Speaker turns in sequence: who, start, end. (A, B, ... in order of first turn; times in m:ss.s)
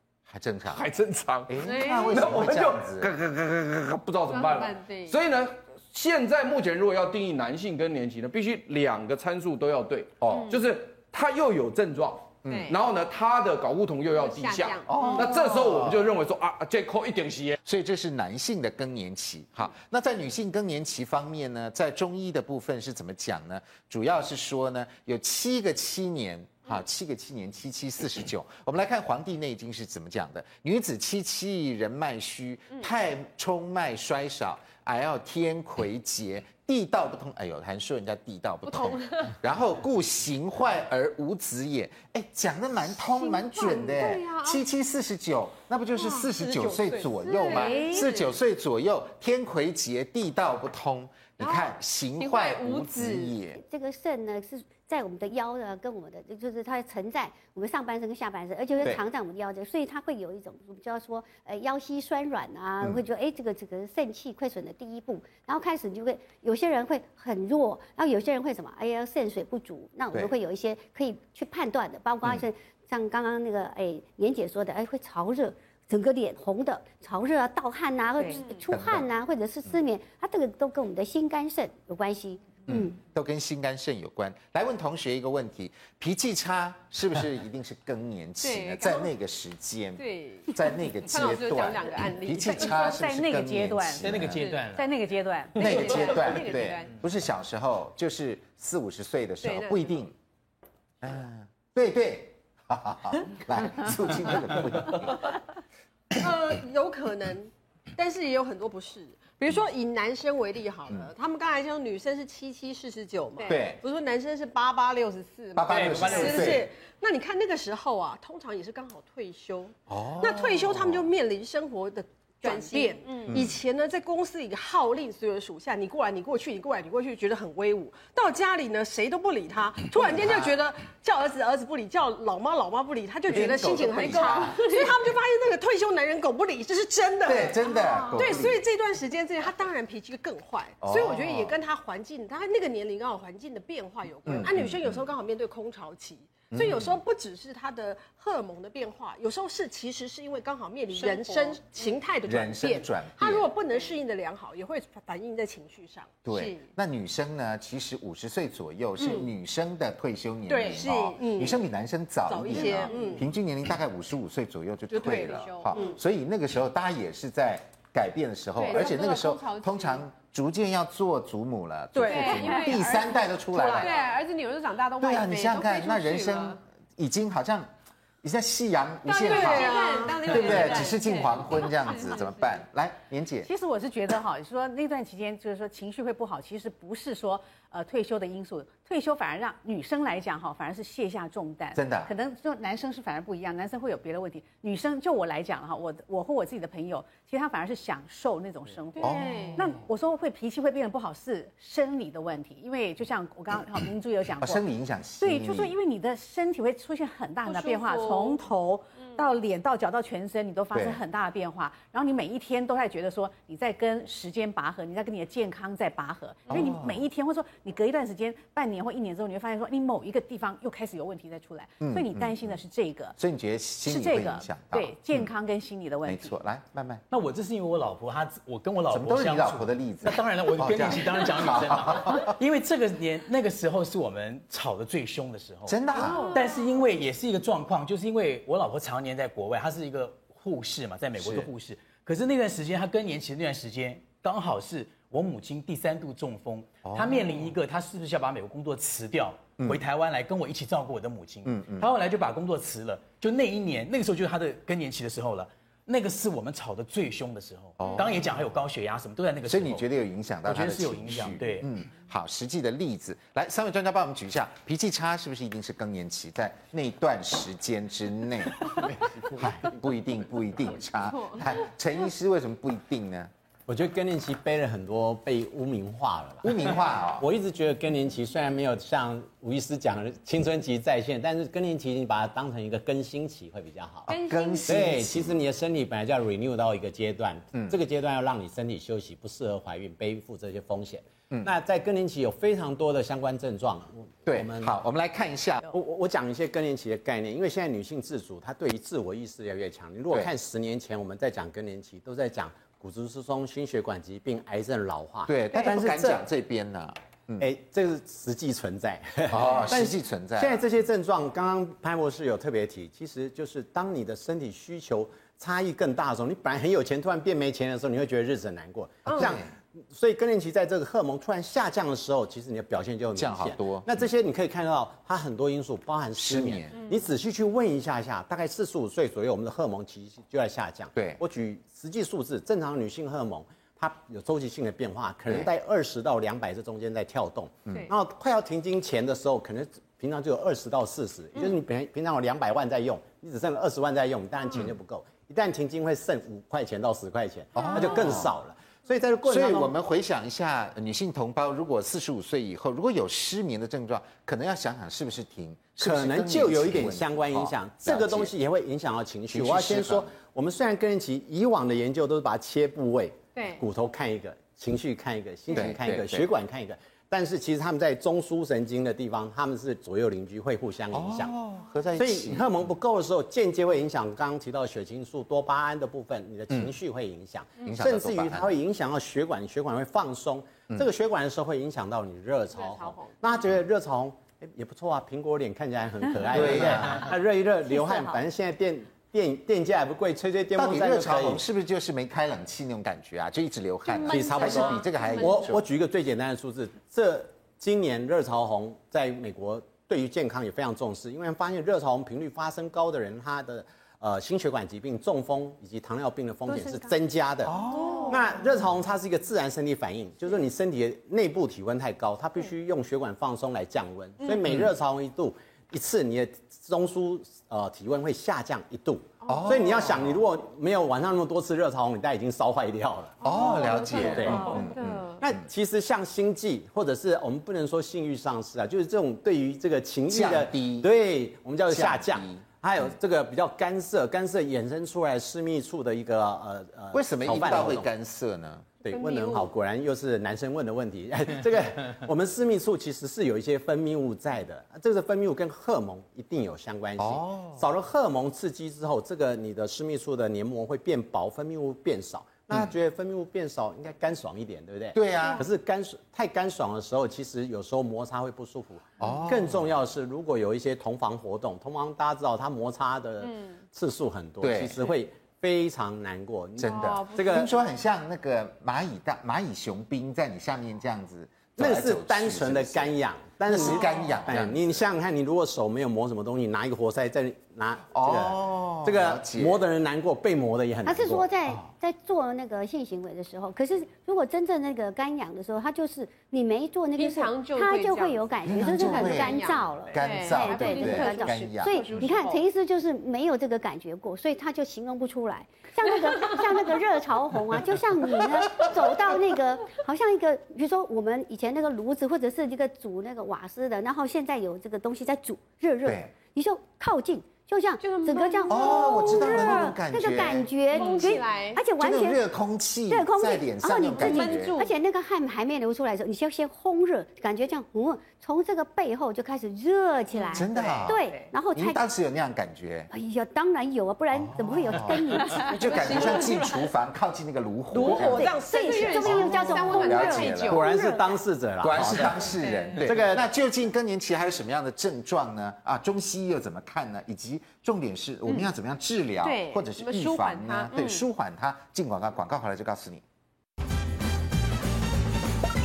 0:00.3-0:00.9 A
0:00.7-0:17.6 B
0:01.5-0:03.1 A
0:01.6-0:02.1 C
0:04.3-0:05.2 C
0:10.2-0:10.5 A
0:10.3-0:10.6 C
0:12.4-0:12.8 C
0:14.1-0:15.3 C
0:14.9-0:16.1 A
0:17.6-0:53.6 A
0:38.9-0:39.3 C
0:43.6-0:44.6 C
0:46.2-0:48.1 D
0:47.1-0:48.2 C
0:51.4-0:51.7 C
0:52.2-0:53.3 C
0:53.6-1:23.0 E
1:18.3-1:18.6 C
1:18.7-1:19.1 A
1:22.7-1:34.4 A
1:28.5-1:29.0 D
1:30.0-1:32.9 D
1:32.4-1:35.8 F
1:34.0-1:35.0 G
1:35.5-1:36.0 G
1:35.6-1:40.1 A
1:35.6-1:36.8 C
1:35.7-1:36.8 D
1:39.4-1:39.9 D
1:41.0-1:45.3 A
1:46.1-2:36.6 D
1:53.5-1:53.8 A
1:55.6-1:56.7 A
1:55.6-1:56.7 G
1:59.9-2:01.0 A
2:02.4-2:03.5 C
2:03.3-2:03.6 A
2:10.0-2:10.5 A
2:13.3-2:14.7 A
2:17.2-2:18.6 A
2:20.8-2:21.6 A
2:24.2-2:25.0 A
2:26.5-2:27.0 A
2:30.9-2:31.6 C
2:32.2-2:33.5 A
2:36.2-2:53.9 A
2:39.0-2:39.2 D
2:40.5-2:41.6 D
2:42.3-2:43.3 D
2:42.6-2:43.1 C
2:45.0-2:45.9 C
2:45.0-2:45.9 D
2:48.6-2:50.0 C
2:48.7-2:49.0 D
2:51.9-2:53.0 D
2:52.0-2:56.6 C
2:53.5-2:54.1 D
2:55.0-2:57.7 A
2:58.2-3:03.5 A
2:59.1-3:02.5 C
2:59.1-3:00.9 D
3:03.4-3:24.6 F
3:11.7-3:12.1 A
3:19.0-3:19.8 A
3:19.0-3:19.5 D
3:19.2-3:19.5 C
3:24.4-3:25.7 A
3:25.2-3:43.2 F
3:27.5-3:28.3 C
3:30.7-3:31.0 A
3:36.5-3:37.0 A
3:41.8-3:42.6 A
3:43.2-3:45.3 A
3:43.8-3:46.4 F
3:46.0-3:47.0 A
3:47.1-4:19.8 G
3:48.9-3:52.3 A
3:55.7-3:56.3 A
3:56.0-3:56.4 D
4:01.2-4:01.5 A
4:06.8-4:07.5 A
4:11.4-4:11.9 A
4:17.8-4:18.2 A
4:19.4-4:33.3 A
4:20.4-4:21.7 G
4:33.7-4:44.1 H
4:36.4-4:37.3 A
4:44.1-4:44.8 C
4:44.1-4:45.4 A
4:44.6-4:54.8 H
4:54.3-4:55.7 A
4:55.7-5:06.2 H
5:05.3-5:07.5 A
5:07.4-5:49.7 H
5:09.3-5:10.6 A
5:19.0-5:19.5 A
5:23.1-5:24.0 A
5:26.2-5:26.8 A
5:30.9-5:31.2 A
5:47.6-5:47.8 C
5:47.6-5:48.3 A
5:49.2-5:58.3 A
5:55.8-6:11.3 H
5:59.3-6:00.1 A
6:03.4-6:03.6 C
6:05.5-6:06.3 A
6:10.9-6:12.7 A
6:11.9-6:31.4 H
6:17.6-6:18.5 A
6:22.6-6:23.2 C
6:26.3-6:27.1 A
6:30.6-6:35.6 A
6:33.9-6:35.5 C
6:34.1-7:03.2 H
6:46.5-6:46.9 C
6:47.4-6:48.1 A
6:47.7-6:48.2 C
6:54.4-6:54.7 A
6:59.3-7:00.2 A
7:03.2-7:05.2 A
7:03.3-7:04.1 D
7:03.9-7:05.2 C
7:04.0-7:04.6 H
7:05.2-7:17.9 H
7:10.1-7:10.9 A
7:11.7-7:12.4 A
7:16.9-7:18.7 A
7:18.8-7:47.5 H
7:18.8-7:19.5 C
7:27.0-7:27.6 A
7:34.9-7:35.4 A
7:39.0-7:39.7 A
7:43.2-7:43.5 C
7:44.4-7:44.9 A
7:46.6-7:52.9 A
7:46.6-7:47.5 C
7:51.6-8:01.3 H
7:53.4-7:54.8 A
7:57.9-7:59.6 A
8:00.8-8:32.2 E
8:07.0-8:12.4 C
8:08.4-8:12.1 A
8:25.8-8:26.1 A
8:27.8-8:29.8 C
8:28.5-8:31.2 A
8:30.7-8:31.6 C
8:31.8-8:34.6 A
8:32.9-8:41.8 E
8:33.9-8:34.7 C
8:40.3-8:41.0 A
8:41.5-8:42.9 A
8:42.9-8:46.3 E
8:44.1-8:48.3 A
8:45.6-8:46.6 D
8:47.7-8:50.6 D
8:47.8-8:51.1 E
8:48.2-8:50.6 C
8:49.0-8:50.6 A
8:50.4-8:52.3 H
8:51.6-9:03.0 A
8:52.4-8:52.8 D
8:52.8-8:53.2 H
8:59.2-9:01.0 C